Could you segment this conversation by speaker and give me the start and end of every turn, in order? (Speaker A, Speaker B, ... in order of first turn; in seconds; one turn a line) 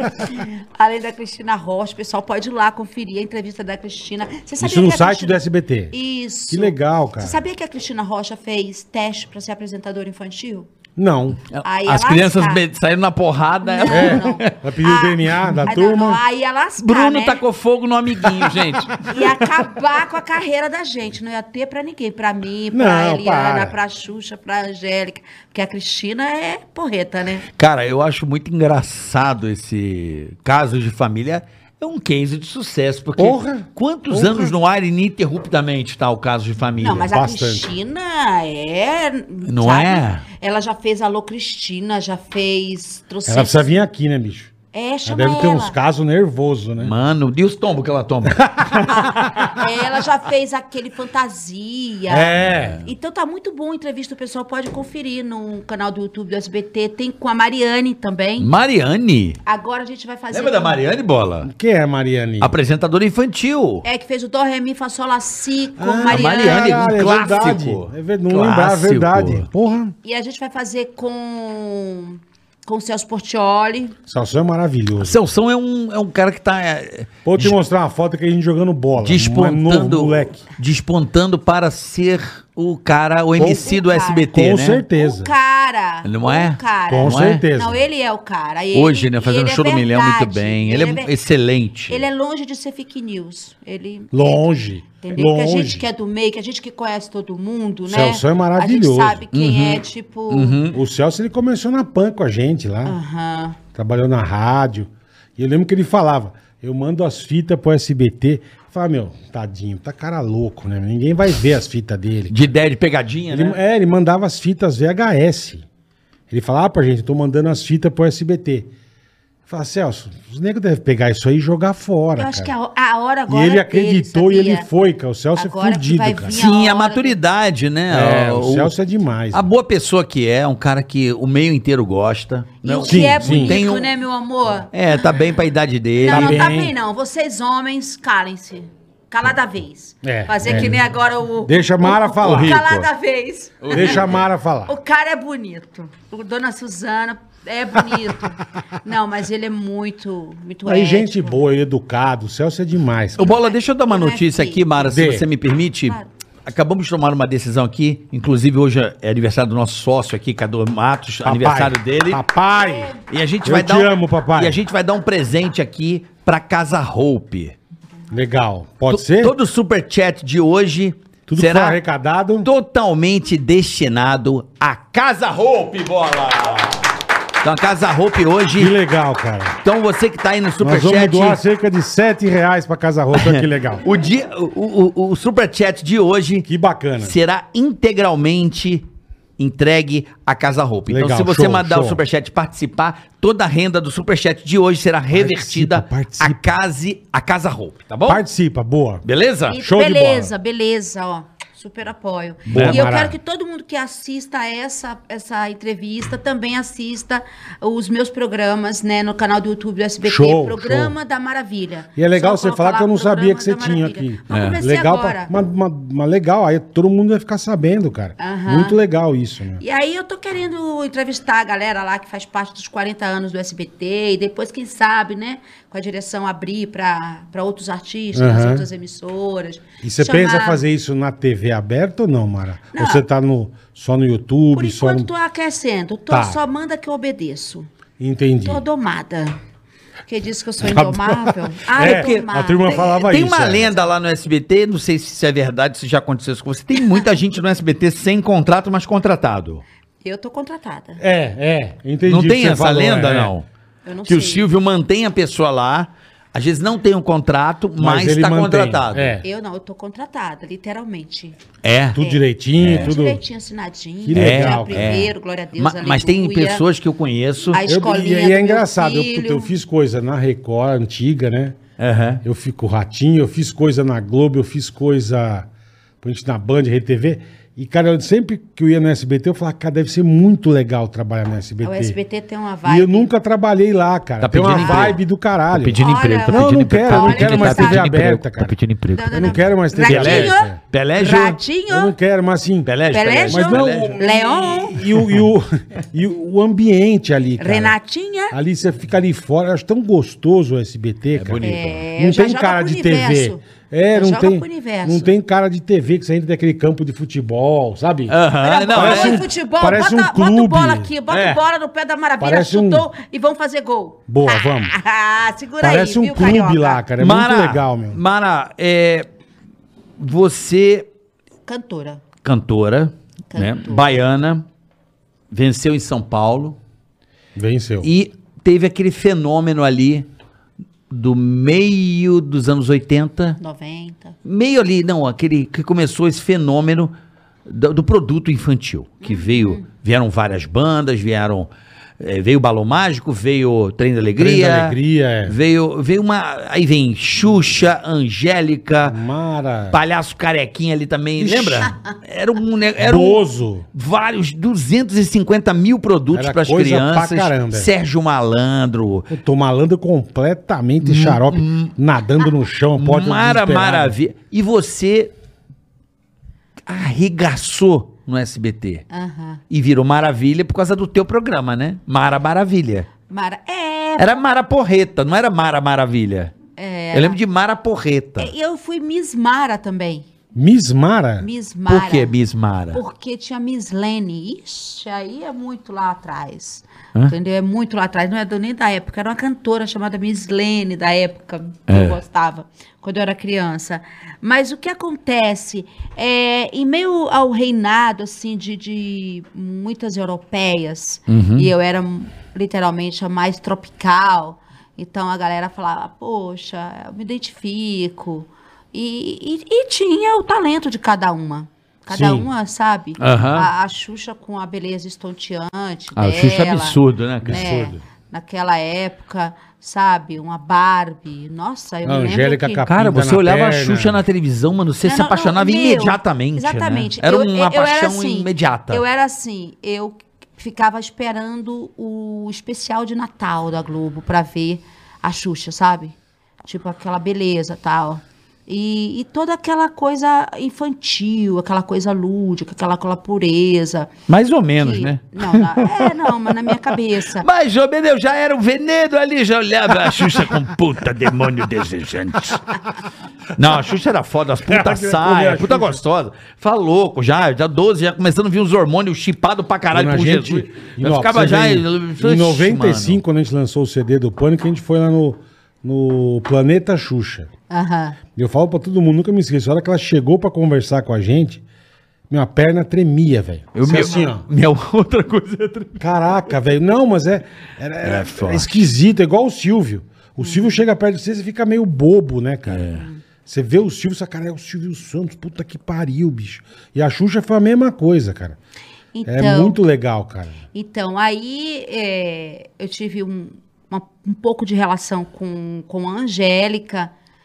Speaker A: 0.2-10.7
Speaker B: 4.6-5.9
Speaker B: 6.5-7.4
Speaker B: 11.0-11.4
Speaker C: 11.5-14.6
Speaker A: 11.6-12.6
Speaker A: 13.6-17.4
Speaker B: 13.9-16.2
Speaker C: 16.8-19.5
Speaker A: 19.1-27.5
Speaker B: 22.7-23.8
Speaker C: 27.5-37.1
Speaker B: 33.2-34.5
Speaker A: 36.8-43.7
Speaker B: 37.1-37.6
Speaker C: 39.5-40.2
Speaker B: 43.3-44.5
Speaker A: 44.7-45.8
Speaker B: 45.0-46.9
Speaker C: 46.8-48.9
Speaker B: 48.4-48.9
Speaker A: 48.9-58.5
Speaker B: 52.1-52.8
Speaker C: 52.5-52.8
Speaker C: 58.4-59.4
Speaker A: 59.5-60.8
Speaker C: 60.3-61.5
Speaker B: 61.4-62.5
Speaker C: 62.4-63.9
Speaker A: 63.8-66.8
Speaker B: 65.8-70.0
Speaker C: 66.1-69.5
Speaker A: 70.0-74.0
Speaker B: 74.1-75.2
Speaker C: 75.0-77.6
Speaker B: 77.3-80.5
Speaker C: 79.0-84.8
Speaker B: 83.4-83.7
Speaker A: 83.4-84.3
Speaker B: 84.3-85.3
Speaker A: 84.9-91.1
Speaker C: 86.0-87.5
Speaker B: 86.9-87.8
Speaker C: 88.7-92.0
Speaker A: 91.9-94.5
Speaker B: 94.1-95.9
Speaker A: 95.0-100.6
Speaker B: 97.9-99.3
Speaker C: 99.3-100.8
Speaker B: 100.7-103.0
Speaker A: 102.8-103.6
Speaker B: 103.7-112.3
Speaker C: 112.3-113.6
Speaker B: 113.3-115.7
Speaker B: 116.3-118.7
Speaker B: 119.5-122.5
Speaker A: 122.2-124.7
Speaker B: 123.3-126.4
Speaker A: 125.4-127.2
Speaker C: 126.3-128.7
Speaker B: 127.9-129.4
Speaker C: 129.3-133.9
Speaker A: 132.6-135.1
Speaker B: 132.8-133.6
Speaker C: 134.7-136.5
Speaker A: 136.0-144.1
Speaker B: 136.1-136.7
Speaker B: 140.0-140.8
Speaker C: 140.4-140.8
Speaker B: 141.4-142.7
Speaker C: 142.2-142.9
Speaker C: 143.6-144.2
Speaker B: 143.7-144.8
Speaker A: 144.7-151.4
Speaker B: 150.7-153.3
Speaker A: 153.2-154.9
Speaker C: 153.2-162.2
Speaker B: 154.8-155.3
Speaker A: 155.8-156.1
Speaker B: 161.2-162.9
Speaker A: 162.6-163.0
Speaker C: 163.1-167.6
Speaker B: 163.4-164.6
Speaker B: 168.1-169.3
Speaker C: 168.9-171.8
Speaker B: 171.3-172.5
Speaker C: 172.4-176.9
Speaker C: 177.4-178.7
Speaker B: 178.5-179.6
Speaker C: 179.6-181.4
Speaker B: 180.6-183.8
Speaker C: 183.1-186.5
Speaker B: 186.5-187.2
Speaker C: 187.0-188.8
Speaker C: 189.4-198.2
Speaker B: 190.9-192.0
Speaker B: 195.1-196.5
Speaker B: 198.1-200.3
Speaker C: 199.0-199.6
Speaker A: 199.5-215.3
Speaker C: 202.5-202.8
Speaker B: 202.5-203.2
Speaker B: 210.0-210.9
Speaker B: 212.0-219.6
Speaker C: 214.3-214.6
Speaker A: 218.2-218.8
Speaker A: 219.6-230.6
Speaker B: 228.1-228.7
Speaker B: 229.8-235.1
Speaker A: 232.7-233.0
Speaker A: 234.5-237.7
Speaker B: 236.1-236.4
Speaker B: 238.0-238.6
Speaker A: 238.4-239.4
Speaker A: 240.1-242.8
Speaker B: 240.7-243.8
Speaker C: 241.8-249.6
Speaker A: 250.0-251.0
Speaker B: 251.0-253.3
Speaker C: 252.1-253.4
Speaker A: 253.8-254.5
Speaker C: 254.1-259.2
Speaker B: 257.8-259.2
Speaker A: 259.2-261.4
Speaker C: 261.6-262.0
Speaker B: 261.9-263.2
Speaker C: 262.6-262.9
Speaker A: 262.8-266.6
Speaker B: 264.0-265.1
Speaker C: 264.1-267.6
Speaker A: 267.5-269.5
Speaker B: 267.6-271.6
Speaker C: 271.8-272.2
Speaker B: 272.2-275.5
Speaker B: 276.0-282.0
Speaker A: 281.6-283.1
Speaker B: 282.6-288.6
Speaker C: 284.2-285.0
Speaker A: 284.5-284.9
Speaker C: 285.5-291.4
Speaker A: 285.8-287.9
Speaker A: 288.9-291.9
Speaker B: 289.1-290.6
Speaker B: 291.7-292.7
Speaker C: 292.7-295.2
Speaker A: 292.9-294.8
Speaker B: 293.3-297.8
Speaker A: 297.4-298.4
Speaker B: 298.3-308.2
Speaker C: 301.1-301.9
Speaker A: 301.4-305.1
Speaker C: 308.1-309.2
Speaker A: 308.4-316.8
Speaker B: 308.7-311.4
Speaker B: 312.2-312.9
Speaker B: 314.1-314.7
Speaker B: 315.6-318.0
Speaker C: 317.0-319.1
Speaker C: 320.0-320.9
Speaker A: 321.5-322.0
Speaker C: 322.2-324.4
Speaker A: 323.3-323.9
Speaker C: 325.3-326.6
Speaker B: 327.4-327.9
Speaker C: 327.8-330.1
Speaker C: 330.9-333.4
Speaker A: 333.4-334.2
Speaker C: 334.2-336.9
Speaker C: 337.5-349.0
Speaker A: 339.0-339.7
Speaker B: 344.2-345.4
Speaker B: 348.8-349.8
Speaker C: 349.7-359.1
Speaker B: 351.2-351.7
Speaker B: 352.8-353.7
Speaker B: 356.1-357.7
Speaker B: 359.1-364.0
Speaker C: 360.8-361.7
Speaker C: 362.8-365.1
Speaker C: 366.7-368.9
Speaker A: 368.9-369.4
Speaker C: 369.5-372.9
Speaker A: 373.1-374.1
Speaker C: 374.0-376.3
Speaker A: 376.6-377.2
Speaker C: 376.9-378.3
Speaker A: 378.2-380.1
Speaker B: 380.3-381.3
Speaker A: 381.2-382.1
Speaker C: 381.7-382.8
Speaker A: 382.7-416.8
Speaker C: 391.7-392.0
Speaker C: 401.1-401.5
Speaker B: 411.9-412.3
Speaker C: 413.0-413.5
Speaker C: 416.0-417.7
Speaker B: 417.2-417.7
Speaker A: 417.3-422.6
Speaker B: 421.9-424.0
Speaker C: 422.7-428.8
Speaker A: 424.9-443.9
Speaker C: 444.1-446.6
Speaker A: 444.6-447.3
Speaker C: 447.2-452.6
Speaker C: 453.4-463.0
Speaker B: 454.5-455.8
Speaker B: 459.7-467.3
Speaker A: 467.5-468.0
Speaker B: 468.1-471.4
Speaker B: 472.1-474.3
Speaker C: 473.5-475.8
Speaker B: 475.8-482.7
Speaker C: 477.8-478.7
Speaker A: 480.2-480.6
Speaker C: 482.5-482.9
Speaker A: 482.8-483.0
Speaker B: 483.3-488.4
Speaker A: 488.9-489.6
Speaker B: 489.1-490.4
Speaker A: 490.5-496.9